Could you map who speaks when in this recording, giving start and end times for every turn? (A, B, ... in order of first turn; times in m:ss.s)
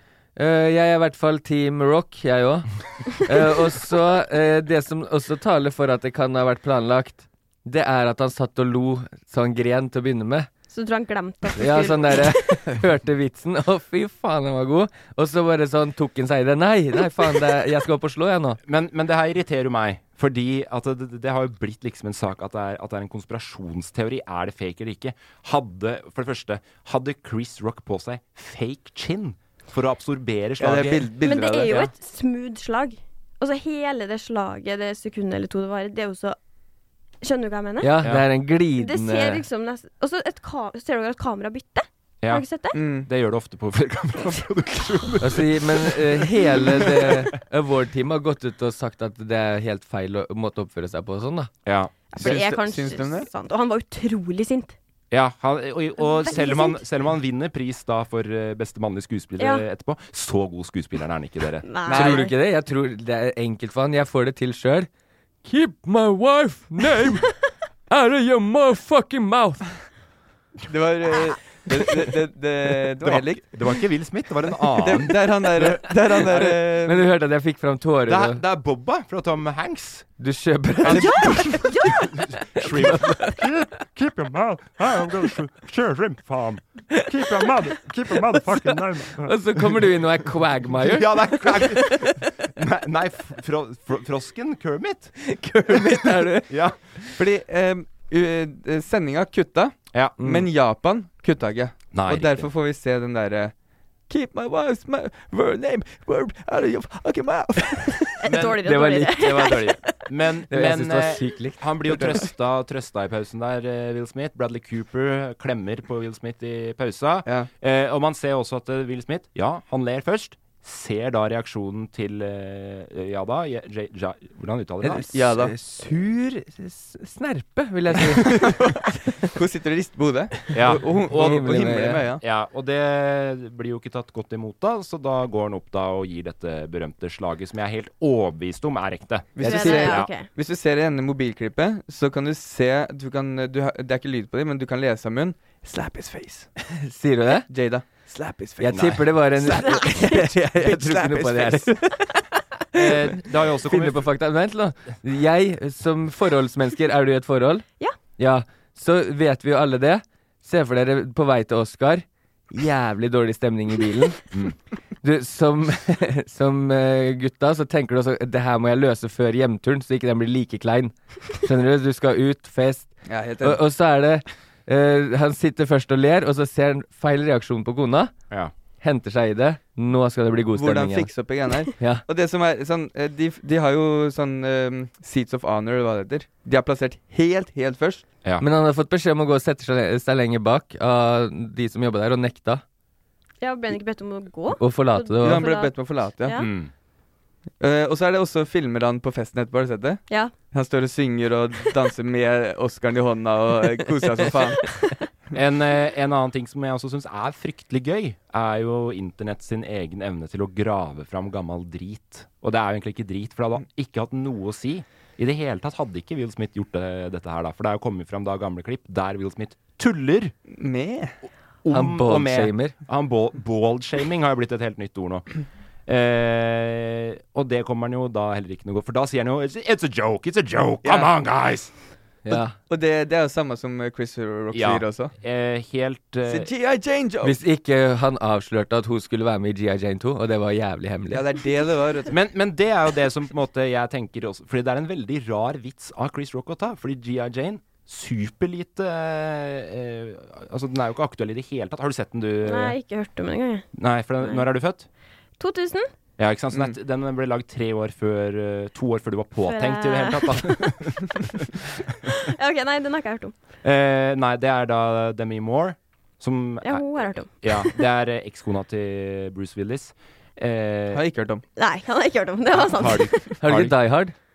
0:00.4-0:10.5 A
0:10.7-0:12.7 B
0:11.6-0:18.6 A
0:18.6-0:31.9 C
0:30.6-0:31.8 D
0:31.2-0:36.4 B
0:37.2-0:38.0 B
0:37.8-0:39.4 A
0:38.8-0:42.8 B
0:42.2-0:47.2 C
0:42.7-0:43.1 D
0:45.2-0:51.5 A
0:51.6-0:51.9 C
0:52.1-0:54.7 B
0:52.2-0:53.3 D
0:55.1-1:01.7 C
0:56.0-0:56.8 B
0:59.4-0:59.6 B
1:01.6-1:02.3 B
1:01.9-1:04.9 A
1:01.9-1:02.2 D
1:05.4-1:07.3 A
1:07.9-1:09.8 A
1:10.7-1:13.7 D
1:13.0-1:15.9 C
1:14.7-1:17.0 D
1:16.3-1:18.4 A
1:18.1-1:20.1 C
1:20.2-1:21.3 A
1:20.8-1:30.0 C
1:20.9-1:22.2 B
1:22.6-1:23.4 A
1:26.9-1:27.5 A
1:28.4-1:32.1 A
1:30.7-1:35.2 C
1:35.2-1:36.5 A
1:36.5-1:36.8 C
1:37.1-1:43.5 D
1:39.9-1:40.2 C
1:40.2-1:40.5 A
1:41.9-1:42.5 C
1:44.1-1:48.1 D
1:48.2-1:49.7 B
1:48.2-2:05.0 C
1:48.6-1:49.7 A
1:50.5-1:51.7 A
2:04.8-2:08.7 A
2:05.1-2:05.5 D
2:08.2-2:12.2 D
2:10.5-2:20.1 C
2:10.9-2:12.0 A
2:19.3-2:26.5 D
2:19.4-2:20.0 A
2:19.4-2:20.3 B
2:26.8-2:27.5 A
2:27.5-2:31.9 D
2:28.6-2:31.9 A
2:28.7-2:29.0 C
2:29.5-2:30.2 B
2:32.7-2:34.1 C
2:33.7-2:37.7 A
2:38.2-2:44.3 A
2:45.0-2:58.1 A
2:53.0-2:53.6 D
2:58.8-3:01.1 A
3:00.5-3:08.0 D
3:01.8-3:02.0 A
3:08.4-3:12.6 A
3:13.4-3:16.5 B
3:14.6-3:15.4 A
3:15.2-3:16.4 D
3:16.3-3:16.7 C
3:17.6-3:24.8 D
3:25.3-3:40.3 C
3:40.5-3:41.1 D
3:41.6-3:45.3 C
3:41.7-3:42.7 A
3:45.9-3:51.7 C
3:50.8-3:51.1 D
3:52.2-3:52.6 A
3:52.3-3:55.1 D
3:54.5-3:56.5 C
3:56.2-3:57.4 D
3:57.2-4:01.2 A
4:01.1-4:02.1 D
4:02.1-4:12.8 C
4:12.4-4:13.6 B
4:13.7-4:14.9 C
4:14.2-4:14.4 B
4:15.4-4:15.9 B
4:16.2-4:21.5 C
4:19.5-4:20.8 B
4:22.0-4:23.3 B
4:23.6-4:31.0 C
4:26.6-4:27.8 B
4:30.9-4:31.4 D
4:31.6-4:33.3 B
4:32.5-4:33.8 C
4:33.4-4:34.1 A